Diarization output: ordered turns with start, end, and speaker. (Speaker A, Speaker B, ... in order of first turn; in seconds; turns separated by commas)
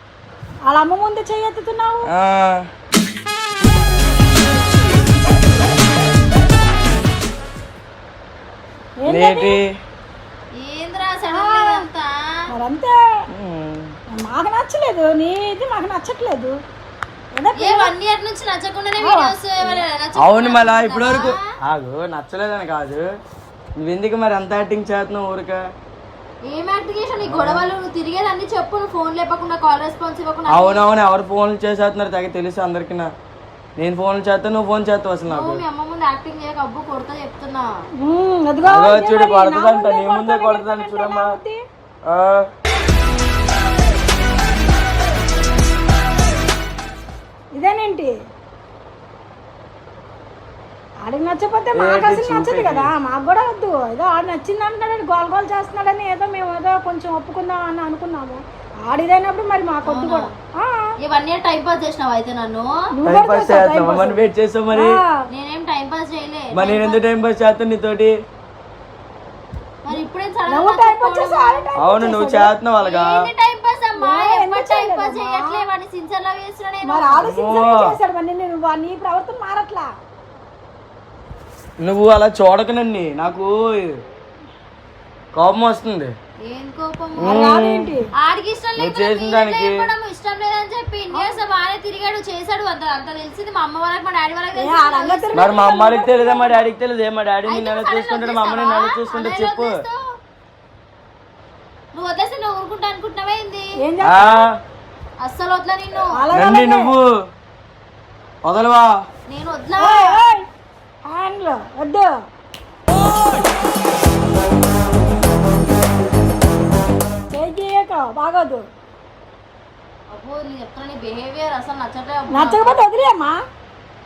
Speaker A: 0.7-2.1, Speaker B: 2.1-2.6, Speaker A: 9.0-9.6, Speaker B: 9.1-9.7, Speaker C: 10.6-12.4, Speaker A: 11.3-11.8, Speaker A: 12.5-13.2, Speaker B: 13.3-13.9, Speaker A: 14.1-16.6, Speaker A: 17.3-17.9, Speaker C: 17.6-21.4, Speaker A: 19.0-19.8, Speaker B: 20.2-23.1, Speaker B: 23.8-25.6, Speaker C: 26.5-30.8, Speaker B: 27.2-27.7, Speaker B: 30.5-33.1, Speaker B: 33.8-35.6, Speaker C: 35.3-37.6, Speaker A: 38.0-41.6, Speaker B: 38.6-41.3, Speaker B: 42.1-42.5, Speaker A: 47.5-48.1, Speaker A: 51.0-60.9, Speaker B: 51.7-52.9, Speaker C: 59.8-60.3, Speaker C: 61.0-62.7, Speaker A: 62.9-65.1, Speaker B: 63.0-64.9, Speaker C: 65.3-67.0, Speaker B: 66.5-68.1, Speaker C: 69.8-71.6, Speaker A: 70.5-72.5, Speaker B: 71.8-73.1, Speaker C: 72.8-77.2, Speaker A: 74.0-75.6, Speaker A: 76.8-79.9, Speaker B: 77.2-77.9, Speaker B: 81.8-84.0, Speaker B: 85.3-86.1, Speaker C: 86.5-87.6, Speaker B: 87.2-87.9, Speaker A: 87.2-88.1, Speaker C: 88.2-95.3, Speaker B: 88.8-89.8, Speaker A: 91.1-91.4, Speaker A: 94.5-96.7, Speaker B: 95.3-99.8, Speaker C: 97.5-100.0, Speaker C: 101.9-103.7, Speaker A: 103.8-104.5, Speaker B: 104.0-104.5, Speaker C: 105.2-106.1, Speaker A: 106.1-106.9, Speaker B: 106.3-107.0, Speaker B: 108.4-108.9, Speaker C: 109.3-110.2, Speaker A: 109.8-110.4, Speaker A: 111.1-112.1, Speaker A: 117.3-118.7, Speaker C: 120.1-122.8, Speaker A: 122.3-123.4